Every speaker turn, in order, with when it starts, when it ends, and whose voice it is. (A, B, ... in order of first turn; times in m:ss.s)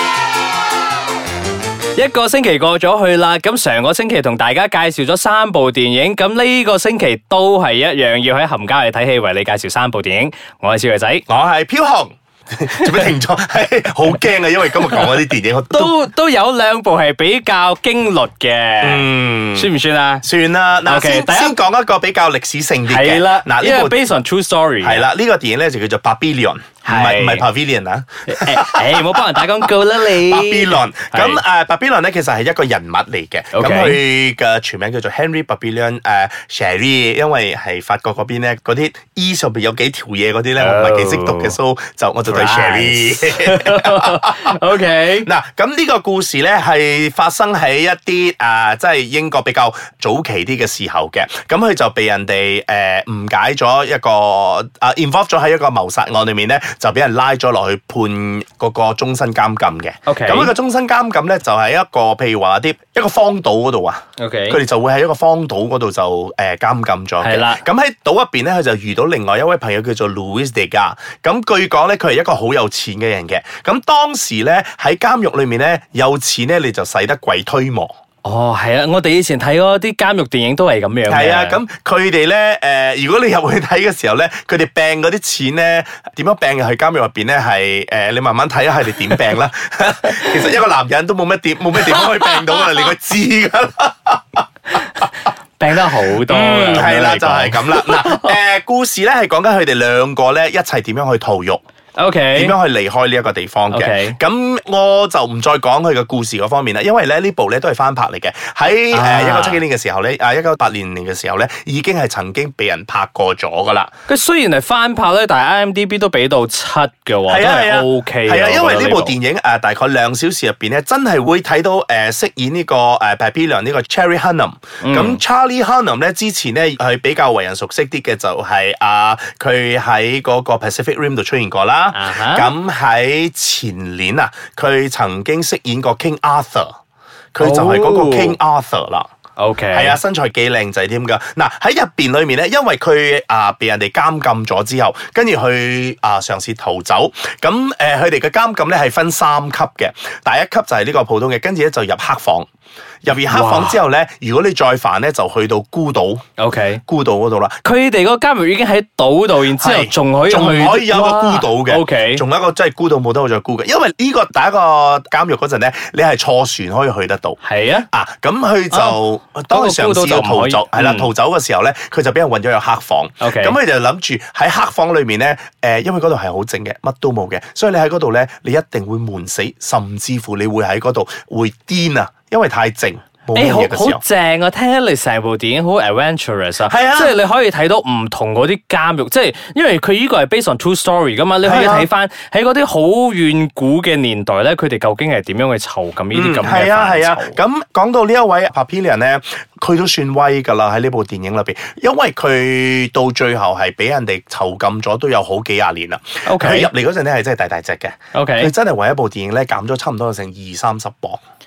0:02.0-0:11.2 A
0:11.3-0:16.0 B
0:12.8-0:13.1 A
0:15.7-0:20.3 A
0:18.8-0:19.7 B
0:20.2-0:24.0 B
0:20.8-0:21.6 A
0:22.9-0:25.0 A
0:24.8-0:44.6 B
0:26.8-0:27.5 A
0:28.3-0:31.4 A
0:33.5-0:34.0 A
0:40.6-0:41.6 A
0:42.2-0:45.3 A
0:45.2-1:17.9 B
1:00.1-1:00.5 A
1:04.2-1:04.6 A
1:07.2-1:07.6 A
1:18.2-1:21.6 A
1:21.1-1:34.2 B
1:31.9-1:32.8 A
1:35.6-1:38.4 A
1:36.2-1:41.6 B
1:42.0-1:42.6 A
1:42.3-1:53.9 B
1:43.7-1:44.2 A
1:48.9-1:49.6 A
1:54.1-1:59.2 A
1:57.3-2:16.7 B
2:04.8-2:05.2 A
2:11.9-2:12.5 A
2:17.3-2:19.1 B
2:17.4-2:18.4 A
2:19.4-2:20.0 A
2:19.7-2:32.5 B
2:33.0-2:36.2 B
2:33.3-2:33.8 A
2:36.4-2:36.8 A
2:36.9-2:37.6 B
2:37.6-2:42.2 A
2:39.5-2:47.4 B
2:47.4-2:47.9 A
2:47.9-3:04.0 B
2:48.7-2:51.1 A
2:53.2-2:53.6 A
3:03.3-3:17.4 A
3:06.7-3:07.2 B
3:11.4-3:11.9 B
3:16.1-3:31.2 B
3:26.3-3:26.7 A
3:28.1-3:28.5 A